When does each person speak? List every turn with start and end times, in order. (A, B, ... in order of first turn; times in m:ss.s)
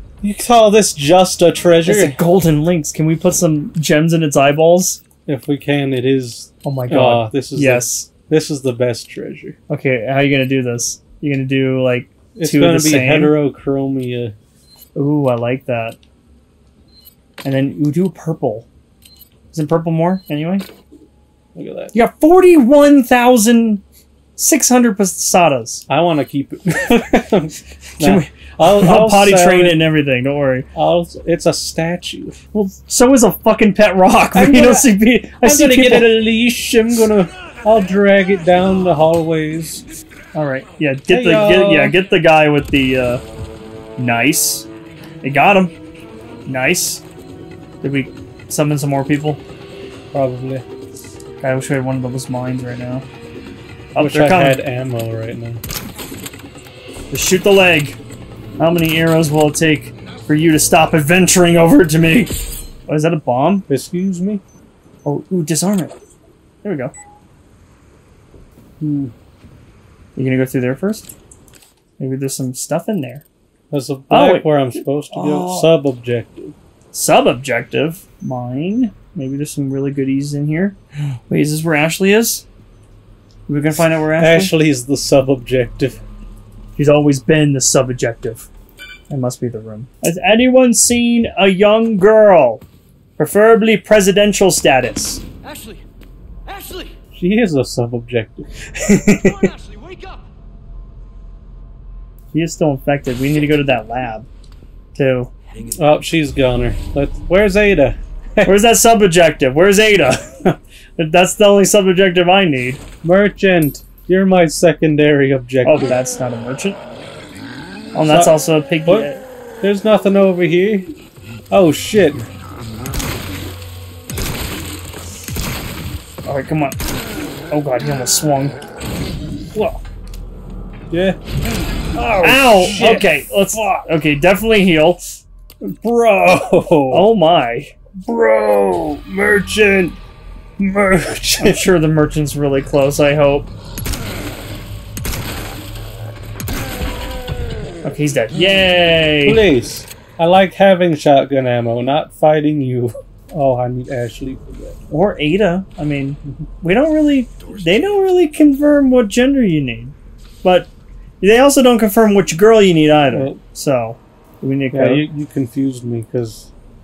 0:00.2-0:02.2 A
0:01.8-0:05.0 B
0:05.2-0:09.6 A
0:06.6-0:08.1 B
0:09.7-0:13.3 B
0:12.3-0:14.3 A
0:14.9-0:16.0 B
0:17.4-0:18.7 B
0:19.5-0:20.6 B
0:21.5-0:21.9 A
0:21.9-0:23.8 B
0:24.4-0:25.8 B
0:25.9-0:29.8 A
0:28.0-0:30.6 B
0:30.7-0:32.4 A
0:32.5-0:36.2 B
0:34.3-0:39.8 A
0:40.3-0:43.2 B
0:41.1-0:42.0 A
0:44.0-0:44.7 B
0:45.2-0:45.7 B
0:46.4-0:47.0 B
0:47.8-0:49.4 B
0:50.1-0:50.6 A
0:51.4-0:53.0 B
0:53.9-0:54.6 B
0:54.0-0:55.6 A
0:57.1-0:58.0 B
0:58.6-1:02.3 B
1:02.9-1:03.6 B
1:03.7-1:04.4 A
1:05.0-1:06.0 B
1:06.6-1:06.9 B
1:08.8-1:09.1 A
1:10.2-1:11.1 B
1:12.0-1:13.2 B
1:13.7-1:16.5 A
1:14.1-1:15.7 B
1:16.9-1:20.8 B
1:21.3-1:22.4 B
1:23.5-1:24.5 B
1:24.2-1:26.0 A
1:26.8-1:28.5 B
1:29.1-1:32.6 B
1:33.2-1:35.2 B
1:35.4-1:35.8 C
1:36.4-1:37.0 C
1:37.1-1:38.5 A
1:38.7-1:39.5 B
1:38.9-1:40.3 C
1:42.3-1:44.3 B
1:44.9-1:45.3 B
1:45.4-1:46.4 C
1:45.7-1:48.5 A
1:48.4-1:52.8 B
1:53.0-1:56.0 A
1:55.6-1:56.8 B
1:57.9-1:59.2 B
1:58.1-1:59.1 A
1:59.6-2:00.9 A
2:01.5-2:02.3 A
2:06.2-2:06.8 B
2:07.5-2:08.6 B
2:09.5-2:09.8 B
2:10.9-2:11.4 A
2:11.9-2:13.1 A
2:12.2-2:15.1 B
2:15.6-2:17.0 A
2:16.9-2:17.8 B
2:18.0-2:20.0 A
2:20.6-2:21.7 A
2:21.4-2:23.5 B
2:27.8-2:29.4 B
2:29.2-2:34.8 A
2:34.9-2:40.7 B
2:37.4-2:38.1 C
2:41.2-2:45.0 B
2:43.1-2:43.4 A
2:44.7-2:46.5 A